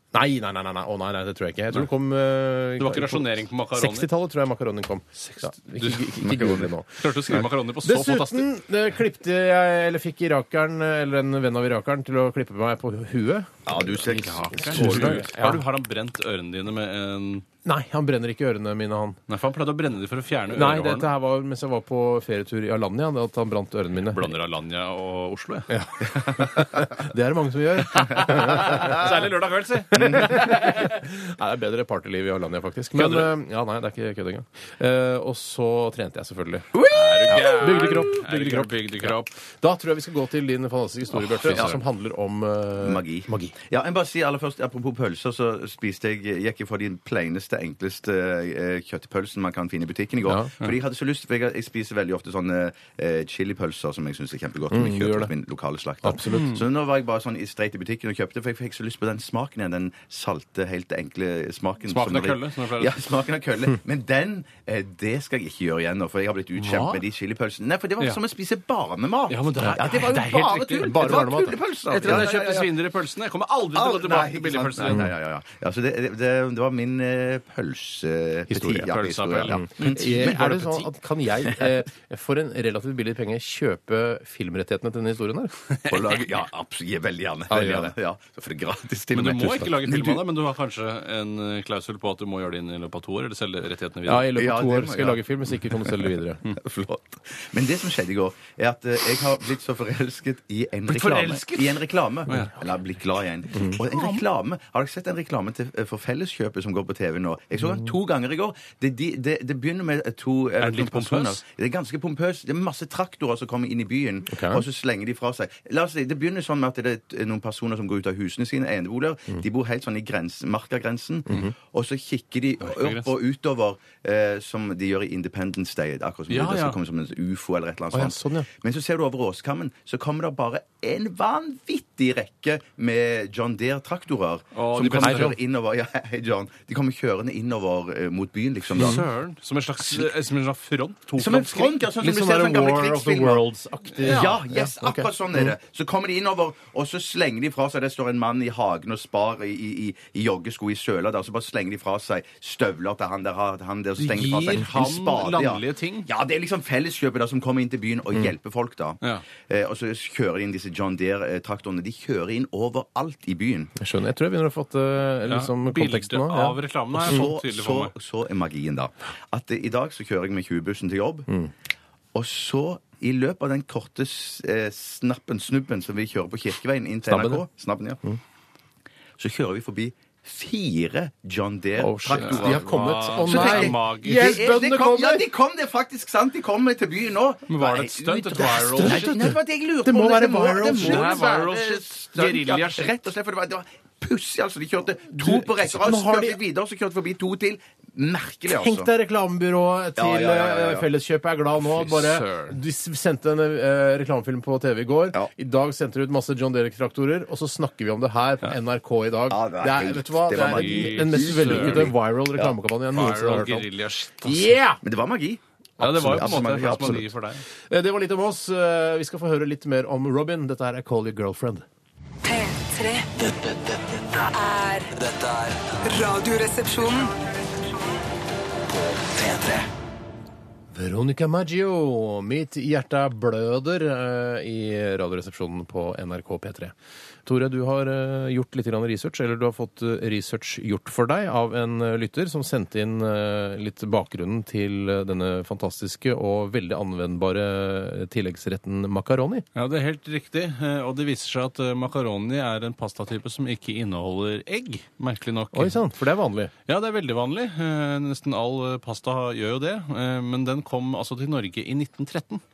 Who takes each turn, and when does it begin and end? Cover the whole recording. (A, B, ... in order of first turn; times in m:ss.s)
0:00.1-0:15.6 A
0:02.8-0:04.1 B
0:05.2-0:06.3 B
0:06.2-0:06.7 C
0:07.0-0:08.5 B
0:13.6-0:15.3 C
0:14.1-0:17.5 B
0:17.6-0:19.2 A
0:19.3-0:21.1 B
0:20.5-0:24.3 A
0:24.1-0:25.8 B
0:25.7-0:29.2 A
0:27.9-0:31.0 B
0:29.9-0:43.5 A
0:33.0-0:33.3 B
0:36.7-0:38.1 C
0:36.9-0:39.3 B
0:41.1-0:41.8 B
0:41.4-0:41.8 C
0:42.8-1:12.7 C
0:50.2-0:50.5 A
0:54.7-0:55.3 A
0:56.0-0:56.6 A
0:56.2-0:56.6 B
1:01.8-1:03.0 B
1:06.6-1:07.0 B
1:09.3-1:11.3 B
1:10.8-1:12.3 A
1:11.9-1:15.1 B
1:13.7-1:20.8 C
1:14.8-1:15.1 A
1:18.5-1:25.5 A
1:18.8-1:20.5 B
1:25.8-1:26.2 B
1:25.9-1:30.2 C
1:27.5-1:27.9 A
1:29.1-1:34.3 B
1:34.1-1:36.5 A
1:34.4-1:36.0 C
1:36.5-2:19.0 C
1:40.9-1:42.5 B
1:43.8-1:44.2 B
1:50.6-1:51.4 B
1:54.3-1:54.6 A
2:02.6-2:03.1 B
2:06.3-2:06.8 B
2:07.9-2:08.5 A
2:14.5-2:15.4 B
2:14.9-2:15.4 A
2:18.7-2:21.8 B
2:18.8-2:19.0 A
2:21.2-2:23.4 C
2:22.0-2:25.5 A
2:24.0-2:24.3 B
2:24.0-2:43.7 C
2:34.0-2:36.1 B
2:43.8-2:47.2 A
2:45.3-2:47.9 B
2:47.0-2:51.3 C
2:52.1-2:58.0 C
2:57.0-2:57.4 A
2:59.2-3:18.9 C
3:01.8-3:05.2 A
3:02.1-3:04.3 B
3:07.5-3:09.2 B
3:08.7-3:11.3 A
3:10.8-3:13.0 B
3:15.2-3:16.4 A
3:18.5-3:33.7 A
3:20.0-3:20.9 C
3:21.7-3:22.6 B
3:29.3-3:32.5 C
3:30.4-3:31.9 B
3:32.9-3:34.5 B
3:34.2-3:34.8 A
3:34.8-3:35.4 C
3:35.8-3:37.1 A
3:35.8-3:37.4 B
3:36.0-3:37.0 C
3:37.7-3:41.7 A
3:42.2-3:43.1 D
3:43.2-3:44.2 E
3:44.3-3:44.9 D
3:44.9-3:45.8 E
3:45.8-3:47.1 D
3:48.7-3:49.7 E
3:50.7-3:56.7 A
3:57.2-4:09.4 A
4:09.5-4:15.8 B
4:15.5-4:16.5 A
4:16.7-4:22.4 B